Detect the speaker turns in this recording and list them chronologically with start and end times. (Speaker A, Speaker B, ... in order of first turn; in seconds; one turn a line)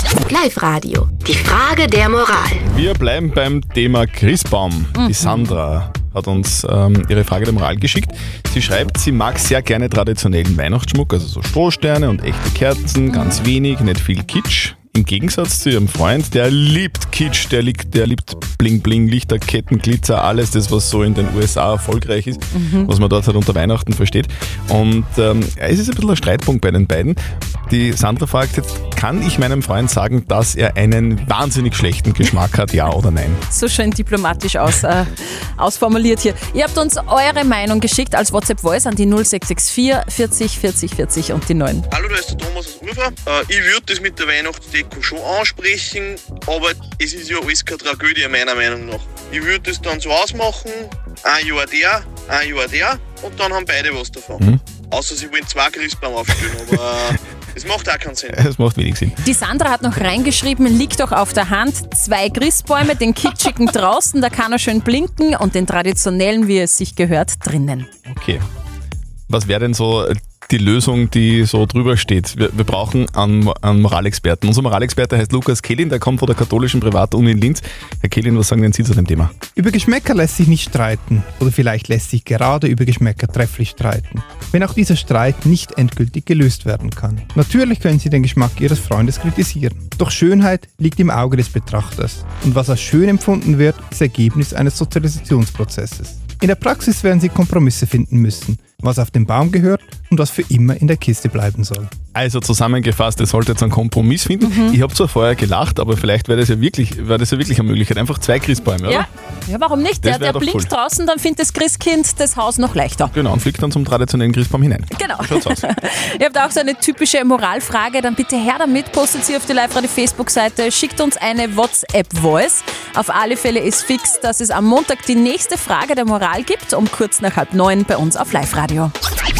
Speaker A: 0.3-0.6
Speaker B: 0.3-2.6
Speaker C: 2.6-33.4
Speaker D: 5.0-5.5
Speaker D: 13.1-13.4
Speaker D: 22.5-22.9
Speaker D: 33.5-41.9
Speaker A: 41.9-54.4
Speaker A: 54.9-58.3
Speaker C: 56.3-56.8
Speaker C: 58.3-59.1
Speaker D: 59.2-67.9
Speaker C: 68.1-68.4
Speaker C: 69.3-79.3
Speaker E: 79.5-101.9
Speaker C: 102.1-109.0
Speaker D: 104.4-104.8
Speaker D: 108.8-113.1
Speaker C: 110.0-110.7
Speaker C: 113.1-115.7
Speaker D: 114.9-128.9